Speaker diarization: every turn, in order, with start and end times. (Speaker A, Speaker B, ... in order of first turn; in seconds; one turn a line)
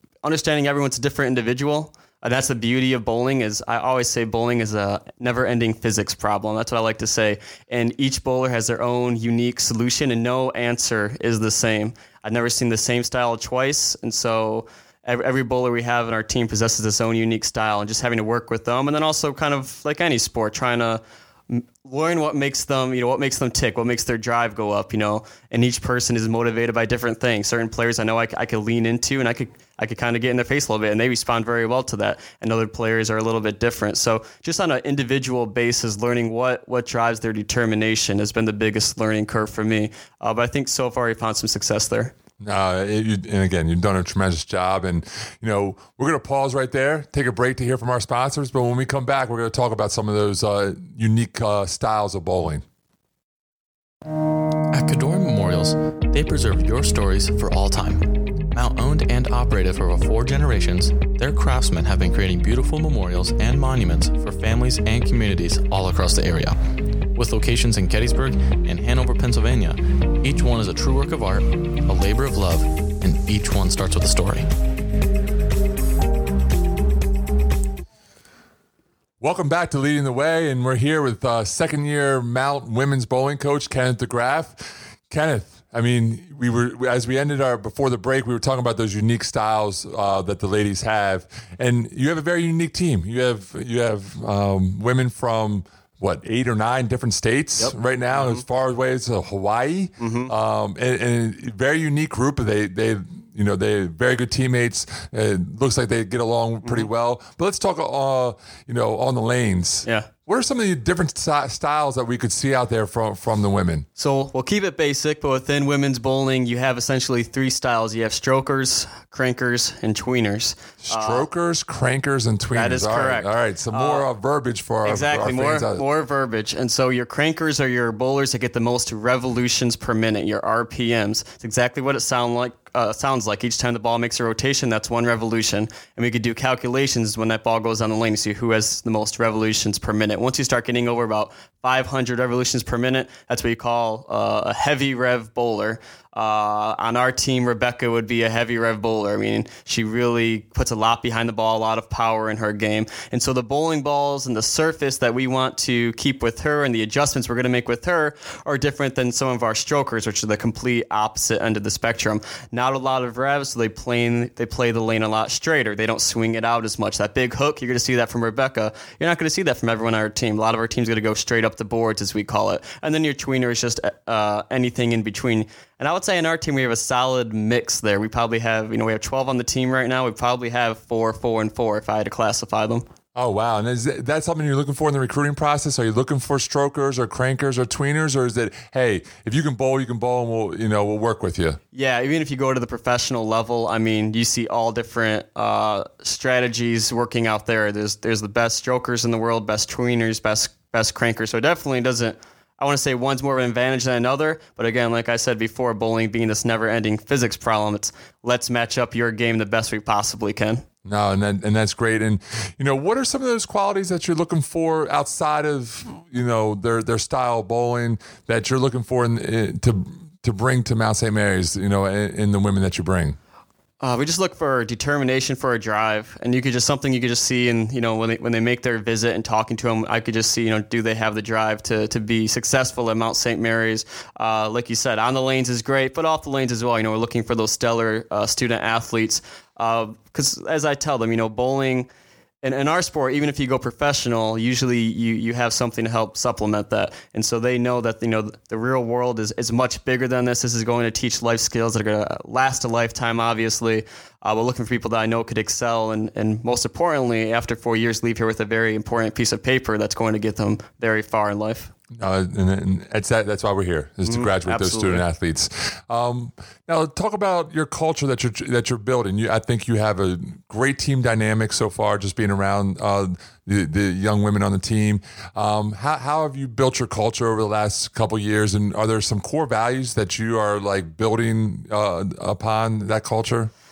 Speaker A: 0.2-42.1
Speaker B: 42.4-52.6
Speaker C: 54.7-66.6
Speaker C: 67.1-74.5
Speaker B: 79.2-113.9
Speaker A: 97.6-98.5
Speaker A: 100.0-100.3
Speaker A: 109.8-110.1
Speaker A: 114.0-121.2
Speaker B: 120.8-125.8
Speaker A: 122.5-124.1
Speaker A: 124.8-182.9
Speaker B: 183.2-191.6
Speaker A: 191.7-210.6
Speaker B: 210.9-223.2
Speaker A: 223.8-241.9
Speaker A: 242.4-261.7
Speaker B: 261.9-283.5
Speaker A: 264.1-265.1